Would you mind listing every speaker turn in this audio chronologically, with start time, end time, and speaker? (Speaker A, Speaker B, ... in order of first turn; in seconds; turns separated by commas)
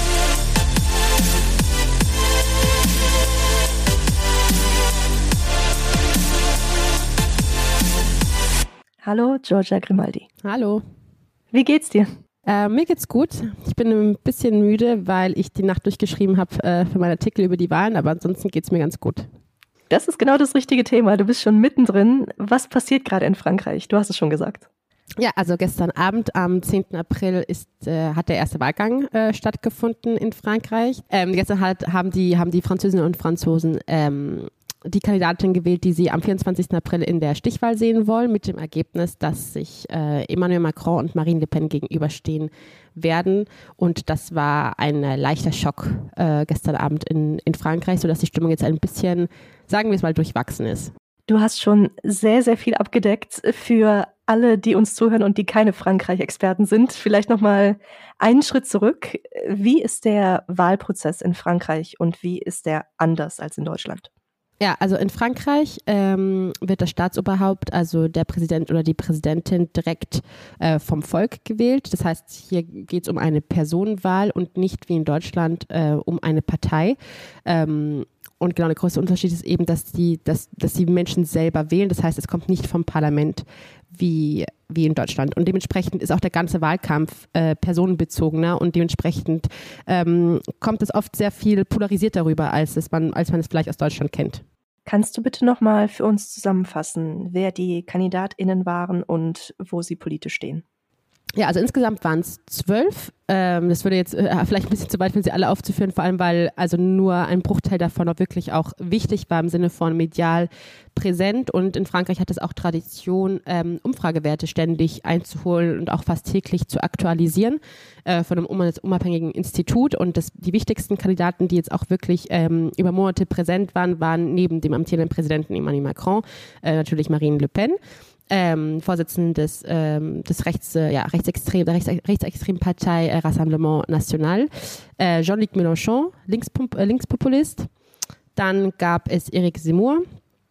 Speaker A: 9.0-10.3, Speaker B: 10.4-10.8, Speaker A: 11.5-12.2, Speaker B: 12.5-19.3, Speaker A: 19.9-24.7, Speaker B: 25.2-50.9, Speaker A: 51.3-64.1, Speaker B: 64.6-94.4, Speaker A: 94.9-100.6, Speaker B: 101.4-127.8, Speaker B: 128.3-137.7, Speaker B: 138.4-140.0